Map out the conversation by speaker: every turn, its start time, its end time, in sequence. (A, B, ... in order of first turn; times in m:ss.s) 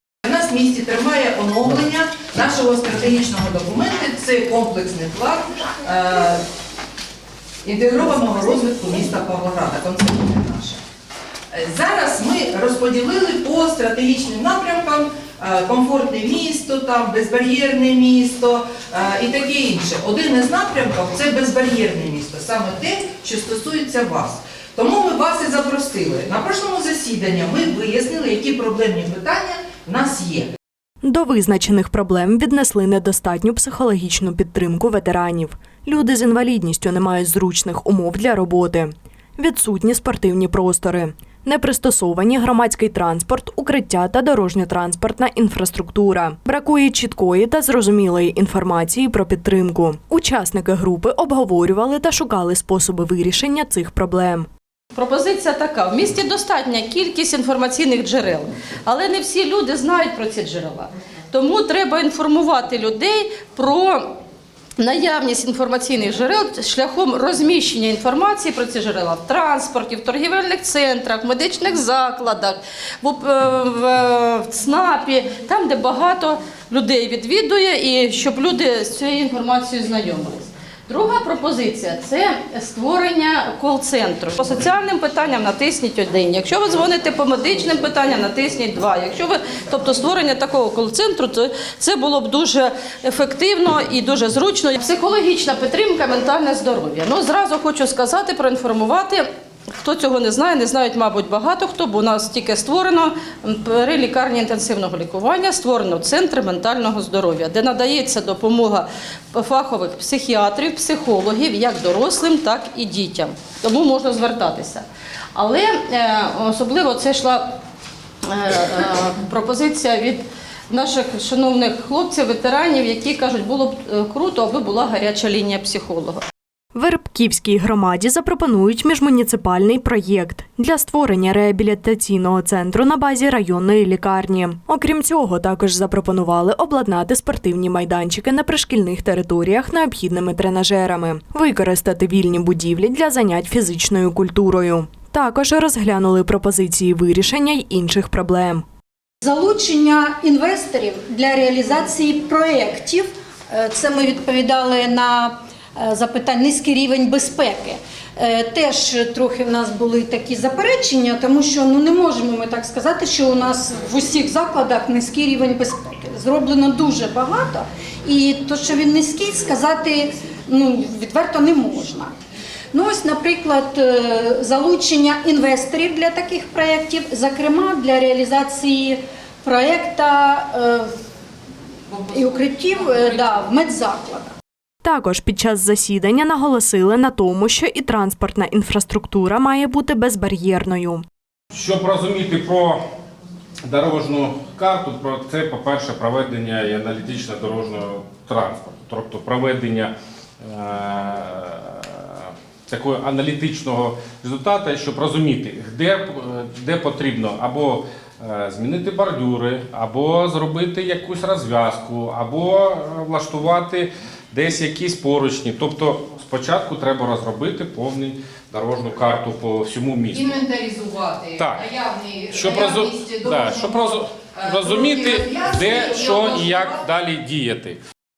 0:00.2-0:06.4 A
0:07.6-0:10.8 A
0:11.5-0:30.5 A
0:31.0-0:54.5 B
0:55.0-1:04.2 C
1:04.8-1:39.2 C
1:39.8-1:57.6 C
1:58.3-2:06.2 C
2:06.8-2:28.6 B
2:29.2-2:52.1 D
2:52.7-3:00.9 D
3:02.1-3:04.3 D
3:04.8-3:11.0 B
3:11.5-3:12.8 E
3:13.6-3:40.4 E
3:40.1-3:46.8 A
3:41.4-3:41.6 E
3:42.3-3:47.8 E